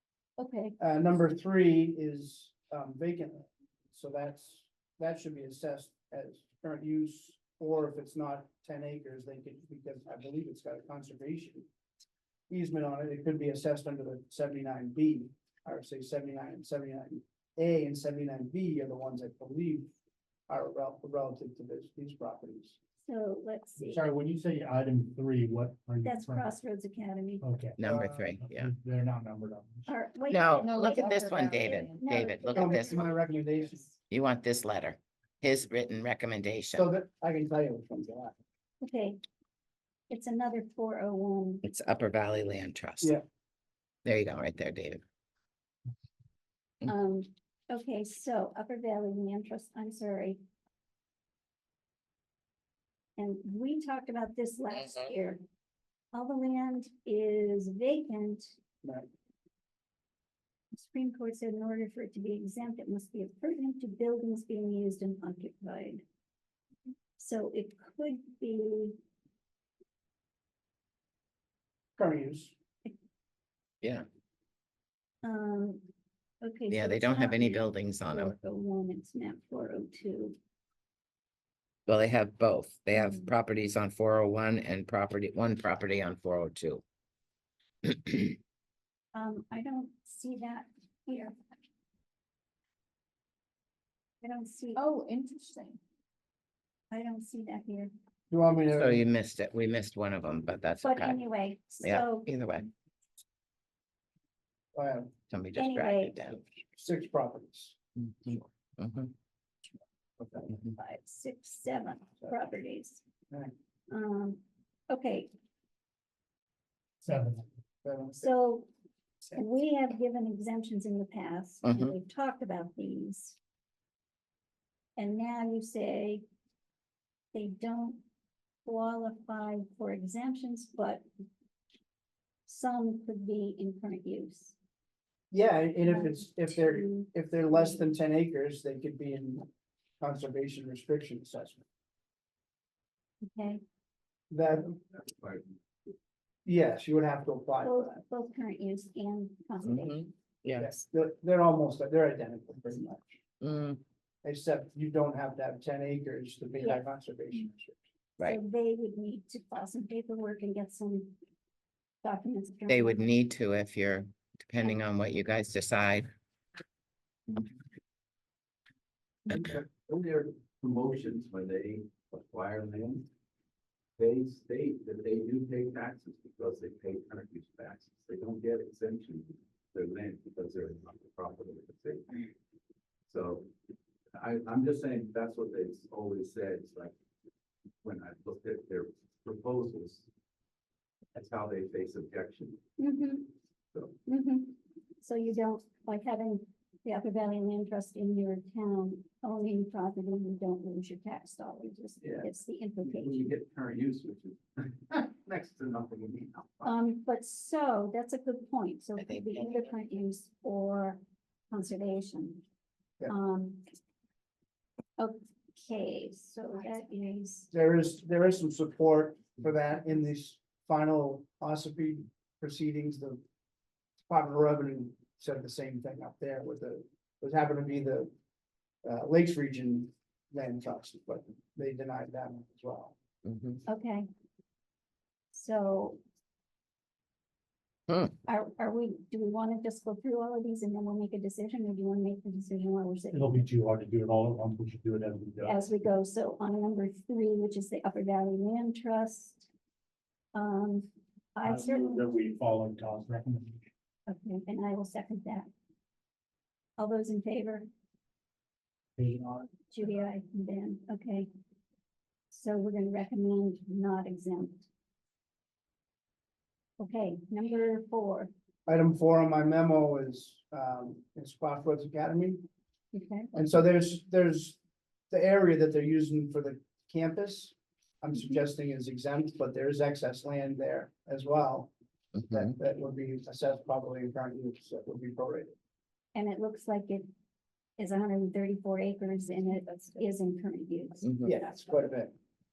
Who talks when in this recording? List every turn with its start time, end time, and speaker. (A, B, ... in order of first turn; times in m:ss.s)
0:00.4-0:00.8 A
0:00.8-0:11.7 B
0:12.5-0:19.9 B
0:20.5-0:22.8 B
0:23.0-0:24.0 A
0:23.8-0:26.5 C
0:26.0-0:27.4 A
0:27.4-0:29.9 C
0:27.8-0:28.7 D
0:29.9-0:34.0 A
0:30.3-0:33.1 D
0:30.6-0:32.1 E
0:32.5-0:33.8 B
0:34.1-0:36.8 D
0:36.7-0:38.3 B
0:38.8-0:39.2 A
0:40.1-0:41.6 A
0:41.6-0:43.1 D
0:44.0-0:45.0 D
0:46.8-0:50.4 A
0:53.2-0:55.4 A
0:56.1-0:58.5 A
1:00.7-1:06.0 A
1:07.2-1:09.0 A
1:12.0-1:12.5 B
1:15.2-1:15.8 A
1:16.4-1:20.4 A
1:16.7-1:18.3 D
1:21.9-1:26.8 D
1:22.9-1:23.3 A
1:27.8-1:28.4 D
1:29.1-1:31.3 A
1:34.2-1:34.8 A
1:34.8-1:35.8 E
1:36.9-1:37.9 A
1:38.3-1:39.0 B
1:38.7-1:41.2 D
1:40.8-1:42.3 A
1:41.8-1:42.7 D
1:44.7-1:45.1 B
1:45.3-1:46.4 D
1:45.6-1:46.2 A
1:46.7-1:47.8 B
1:48.0-1:49.1 D
1:50.2-1:50.5 B
1:50.8-1:53.0 A
1:53.9-1:55.3 A
1:57.0-1:57.4 C
1:57.8-1:58.3 B
1:58.2-1:58.7 A
1:59.3-2:03.4 A
2:01.6-2:01.9 D
2:05.0-2:06.2 A
2:07.3-2:08.0 A
2:08.6-2:11.0 A
2:12.5-2:14.6 A
2:15.3-2:19.5 B
2:15.8-2:17.9 A
2:20.0-2:21.6 B
2:23.2-2:23.6 A
2:24.3-2:24.8 B
2:24.9-2:25.5 F
2:26.4-2:28.0 B
2:27.6-2:30.1 A
2:29.6-2:30.7 D
2:30.6-2:33.2 B
2:33.4-2:33.8 D
2:34.2-2:37.8 B
2:36.6-2:36.8 A
2:38.2-2:41.2 A
2:42.0-2:43.1 A
2:42.7-2:46.1 D
2:49.3-2:53.1 F
2:54.0-3:02.2 F
3:03.1-3:03.5 F
3:04.1-3:06.9 F
3:07.8-3:10.0 F
3:11.1-3:12.6 F
3:12.8-3:13.3 A
3:14.0-3:23.3 A
3:22.0-3:22.3 F
3:22.8-3:26.8 F
3:26.6-3:32.4 A
3:29.0-3:29.4 D
3:33.1-3:33.6 A
3:35.0-3:37.5 A
3:37.5-3:43.2 B
3:44.1-3:48.1 B
3:48.8-3:53.0 B
3:53.2-3:53.6 D
3:53.7-3:54.1 A
3:55.3-3:56.0 A
3:58.2-4:03.4 A
4:03.1-4:05.7 C
4:05.4-4:09.5 A
4:10.3-4:12.1 A
4:11.4-4:13.7 C
4:14.1-4:15.5 A
4:16.8-4:17.7 A
4:19.0-4:19.7 C
4:19.7-4:21.3 A
4:22.3-4:24.7 A
4:26.8-4:28.3 A
4:28.6-4:32.4 B
4:32.9-4:33.3 A
4:33.3-4:34.6 B
4:35.1-4:41.7 B
4:42.2-4:42.5 D
4:42.3-4:45.5 B
4:46.1-4:47.1 A
4:47.8-4:51.6 A
4:51.2-4:52.1 B